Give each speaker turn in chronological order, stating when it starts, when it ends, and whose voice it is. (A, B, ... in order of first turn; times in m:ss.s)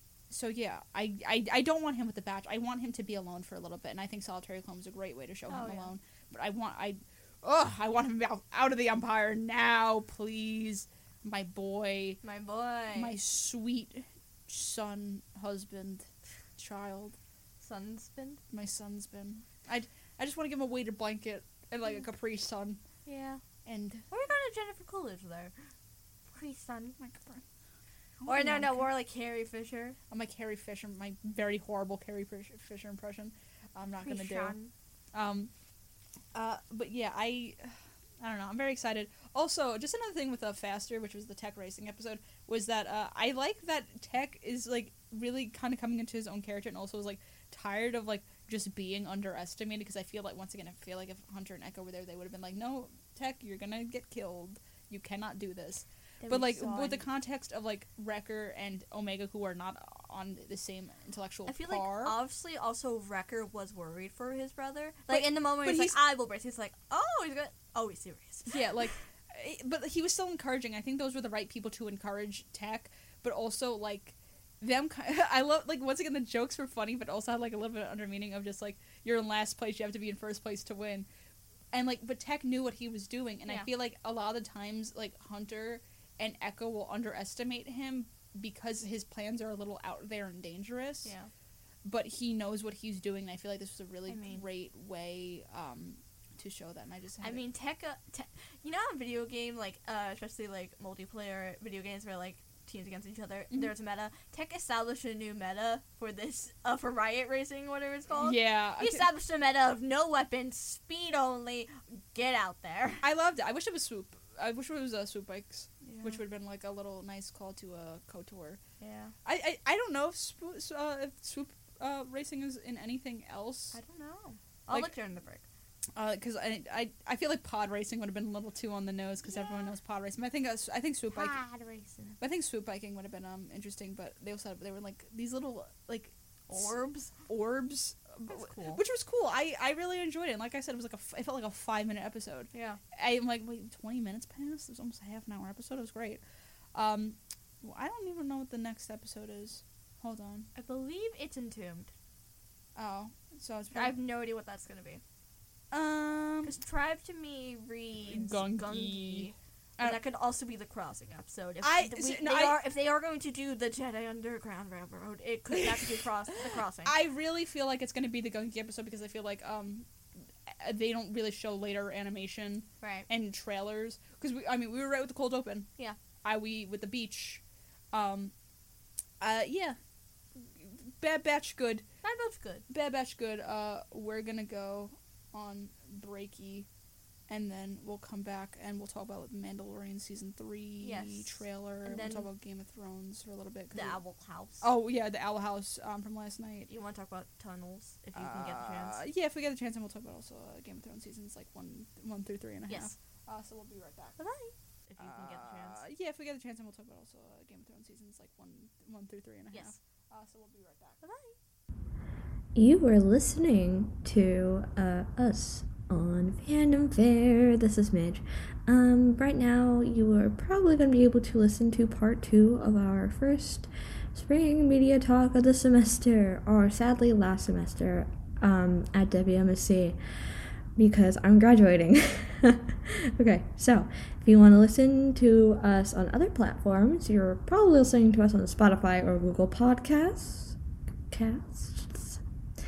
0:00.3-0:12.2 A
0:05.5-0:05.9 B
0:12.2-0:13.2 B
0:12.9-0:17.2 A
0:17.6-0:18.4 B
0:18.5-0:22.8 A
0:23.0-0:23.4 B
0:23.6-0:24.1 A
0:24.1-0:25.5 B
0:26.3-0:27.0 B
0:27.0-0:27.4 A
0:28.2-0:28.9 A
0:28.2-0:30.0 B
0:30.1-0:34.6 A
0:34.0-0:34.7 B
0:35.1-0:35.5 A
0:36.3-1:02.1 A
0:56.2-0:57.0 B
1:01.5-1:08.6 B
1:05.1-1:06.0 A
1:08.5-1:21.0 A
1:21.7-1:31.1 A
1:31.0-1:31.3 B
1:31.8-1:37.4 A
1:34.1-1:34.4 B
1:37.2-1:53.0 B
1:48.2-1:49.1 A
1:53.0-1:58.6 A
1:55.8-1:56.2 B
1:58.8-1:59.1 B
1:59.2-2:03.8 A
2:03.7-2:05.4 B
2:06.0-2:11.4 A
2:09.3-2:09.6 B
2:11.1-2:12.2 B
2:12.2-2:16.7 A
2:16.5-2:17.1 B
2:17.2-2:26.2 A
2:18.3-2:18.8 B
2:22.5-2:22.8 B
2:26.7-2:30.5 A
2:30.5-2:31.9 B
2:32.8-2:34.0 A
2:33.7-2:35.0 B
2:35.7-2:36.5 A
2:36.4-2:46.9 B
2:38.1-2:40.0 A
2:41.6-2:42.6 A
2:45.5-2:55.7 A
2:52.8-2:53.1 B
2:56.2-2:58.3 A
2:59.2-2:59.8 A
3:00.3-3:01.8 A
3:02.0-3:02.6 B
3:02.7-3:06.7 A
3:07.3-3:14.0 A
3:10.8-3:12.3 B
3:13.7-3:14.6 B
3:14.6-3:16.7 A
3:16.7-3:19.0 B
3:18.1-3:24.2 A
3:22.7-3:22.9 B
3:24.2-3:25.8 B
3:25.0-3:31.0 A
3:31.0-3:31.4 B
3:32.5-3:50.0 C
3:50.8-4:00.6 C
4:01.1-4:02.2 C